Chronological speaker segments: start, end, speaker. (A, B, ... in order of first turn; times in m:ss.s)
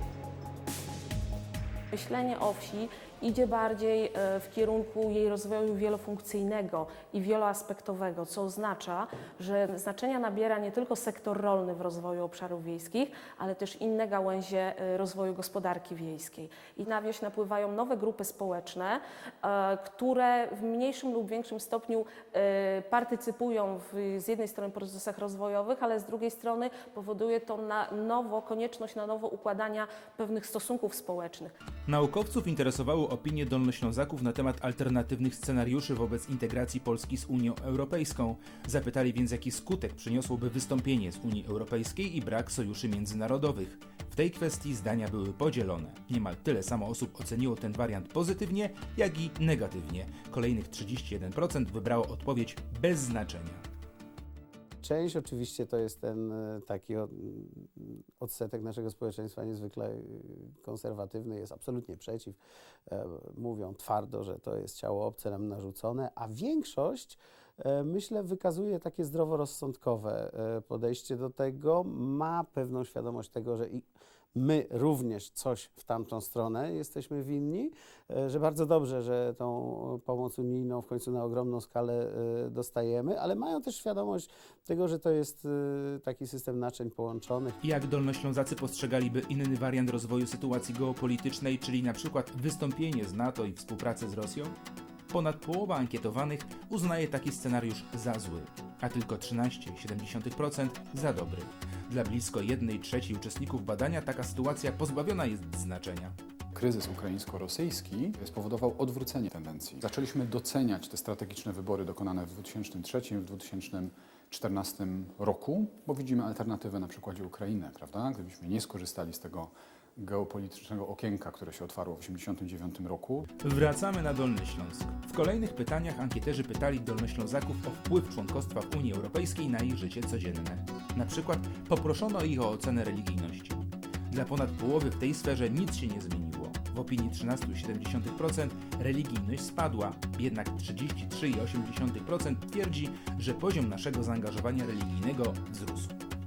0:01.9-0:31.6 A
0:31.9-0:53.6 B
0:54.8-1:27.6 C
1:27.6-1:34.6 B
1:35.1-1:46.2 B
1:46.5-2:03.3 D
2:03.4-2:26.0 B